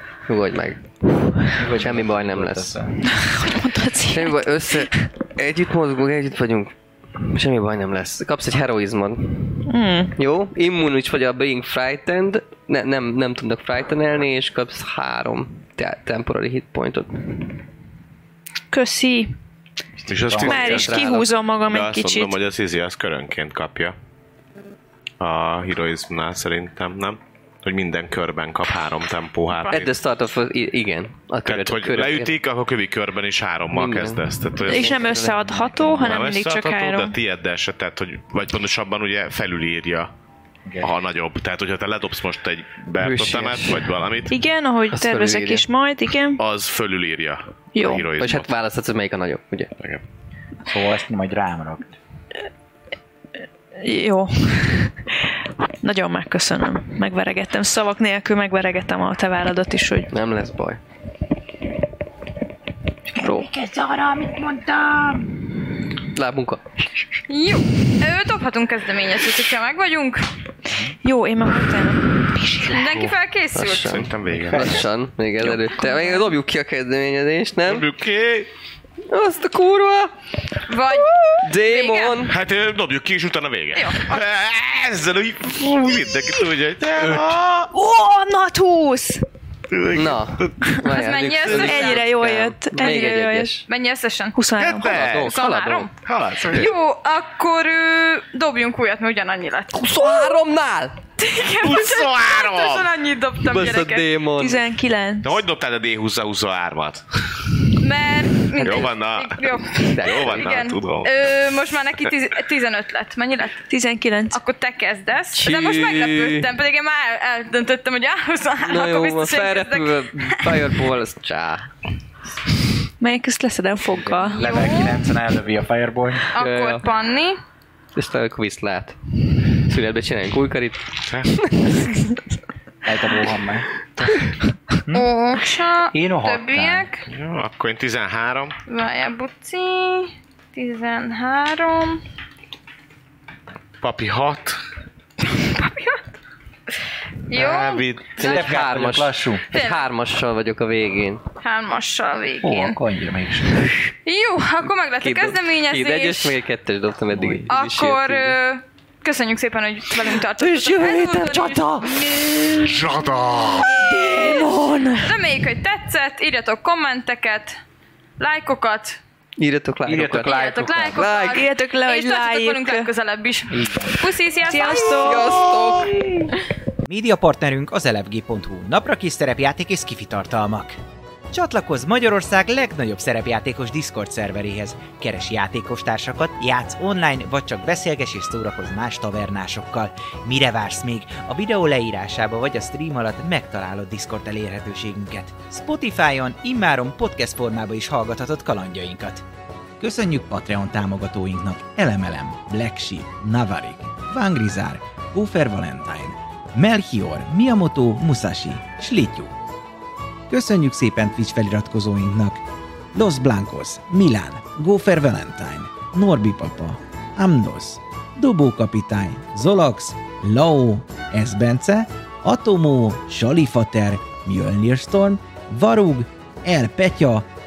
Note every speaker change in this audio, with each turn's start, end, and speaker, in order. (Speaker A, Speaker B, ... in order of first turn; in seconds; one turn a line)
Speaker A: 0.2-2.8
Speaker B: 1.5-3.0
Speaker C: 3.1-5.1
Speaker A: 4.1-17.5
Speaker C: 9.7-10.2
Speaker C: 18.7-19.3
Speaker B: 20.0-21.0
Speaker D: 20.1-23.9
Speaker C: 20.4-22.4
Speaker D: 25.2-30.0
Speaker E: 29.5-29.8
Speaker A: 29.7-32.4
Speaker D: 31.4-35.1
Speaker A: 33.7-36.0
Speaker C: 34.6-37.1
Speaker D: 35.9-40.1
Speaker B: 40.7-40.9
Speaker D: 40.8-44.4
Speaker A: 43.0-44.0
Speaker C: 44.3-46.4
Speaker A: 44.9-45.7
Speaker D: 46.4-48.5
Speaker C: 47.8-48.1
Speaker A: 48.2-49.7
Speaker D: 49.8-50.0
Speaker B: 50.7-52.0
Speaker C: 53.8-55.3
Speaker C: 55.8-60.1
Speaker A: 60.1-60.8
Speaker F: 63.1-65.4
Speaker C: 63.2-63.5
Speaker A: 66.1-67.0
Speaker E: 67.3-70.3
Speaker C: 71.0-72.8
Speaker E: 72.7-74.0
Speaker A: 73.5-77.9
Speaker D: 73.8-74.9
Speaker B: 74.3-74.8
Speaker C: 75.8-76.2
Speaker D: 77.6-78.5
Speaker A: 79.1-80.1
Speaker E: 80.7-82.3
Speaker A: 81.4-82.4
Speaker D: 82.3-87.7
Speaker E: 83.8-84.2
Speaker C: 87.7-89.2
Speaker D: 89.7-90.8
Speaker A: 89.9-93.7
Speaker E: 90.9-92.1
Speaker C: 91.5-93.6
Speaker E: 93.7-95.9
Speaker C: 94.3-95.0
Speaker D: 94.6-95.3
Speaker A: 94.9-95.9
Speaker D: 96.0-96.7
Speaker E: 96.5-100.4
Speaker A: 99.7-101.0
Speaker E: 101.2-104.1
Speaker D: 101.6-102.9
Speaker A: 103.4-104.6
Speaker C: 104.4-105.4
Speaker D: 105.2-107.7
Speaker E: 107.8-113.7
Speaker D: 108.5-111.3
Speaker A: 109.9-110.5
Speaker C: 113.7-114.4
Speaker E: 114.3-120.7
Speaker A: 115.3-116.5
Speaker A: 118.7-121.7
Speaker C: 123.0-124.5
Speaker B: 123.9-126.3
Speaker E: 124.3-125.0
Speaker E: 126.3-127.4
Speaker A: 126.4-126.9
Speaker A: 128.0-132.2
Speaker D: 131.1-131.3
Speaker B: 132.8-133.7
Speaker B: 134.8-135.1
Speaker E: 134.9-137.1
Speaker B: 135.9-136.9
Speaker D: 137.1-138.6
Speaker E: 138.7-142.0
Speaker D: 143.8-144.6
Speaker E: 145.3-146.0
Speaker E: 147.3-148.6
Speaker D: 147.3-148.2
Speaker A: 148.2-151.2
Speaker B: 148.2-149.4
Speaker E: 149.5-149.9
Speaker E: 151.4-152.8
Speaker B: 152.4-153.6
Speaker E: 154.1-156.4
Speaker A: 155.0-158.4
Speaker B: 157.1-157.5
Speaker E: 157.5-162.0
Speaker A: 160.4-165.1
Speaker D: 162.6-163.7
Speaker E: 163.9-167.6
Speaker E: 168.2-169.0
Speaker A: 169.4-171.4
Speaker B: 169.8-171.1
Speaker E: 170.2-175.8
Speaker C: 171.3-172.9
Speaker B: 173.5-174.1
Speaker C: 174.4-175.4
Speaker A: 174.9-176.3
Speaker G: 176.9-180.8
Speaker G: 181.3-199.2
Speaker G: 199.8-209.3
Speaker G: 210.3-227.3